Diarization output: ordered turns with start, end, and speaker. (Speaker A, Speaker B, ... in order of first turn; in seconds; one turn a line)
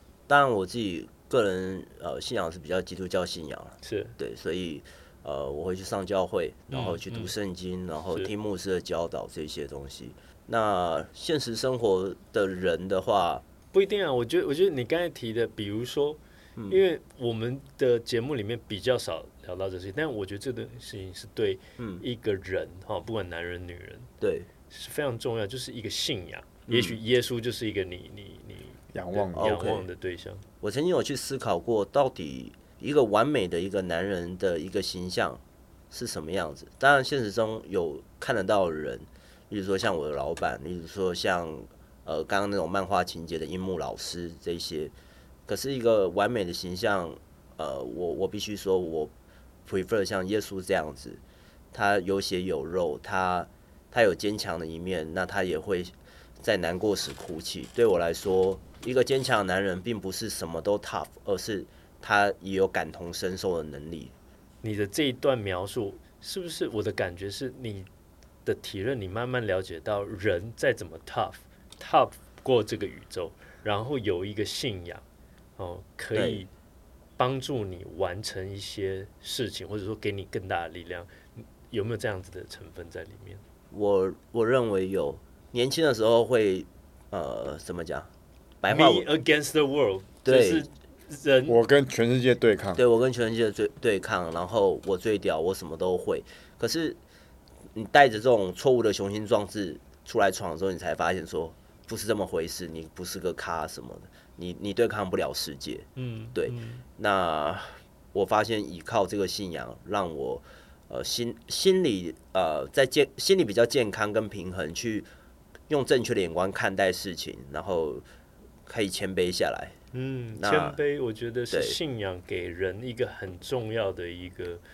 Speaker A: 0.3-13.4
Speaker B: 3.8-4.2
Speaker B: 6.7-7.3
Speaker B: 13.7-24.1
Speaker A: 16.6-16.8
Speaker A: 21.8-22.1
Speaker A: 24.2-24.5
Speaker B: 24.7-30.4
Speaker A: 26.7-27.0
Speaker C: 28.9-29.6
Speaker A: 29.4-29.9
Speaker A: 30.6-44.9
Speaker A: 45.5-49.1
Speaker A: 49.7-51.2
Speaker A: 51.7-64.1
Speaker B: 64.6-67.9
Speaker B: 68.5-75.0
Speaker B: 75.6-76.5
Speaker A: 76.1-76.4
Speaker B: 77.2-83.4
Speaker A: 83.7-88.1
Speaker A: 88.6-89.1
Speaker B: 88.7-91.6
Speaker A: 90.2-90.7
Speaker C: 91.5-92.8
Speaker A: 92.8-97.0
Speaker A: 97.7-115.1
Speaker B: 106.0-106.8
Speaker A: 115.7-118.0
Speaker A: 118.7-119.8
Speaker B: 119.9-124.6
Speaker A: 120.3-120.8
Speaker A: 121.5-121.8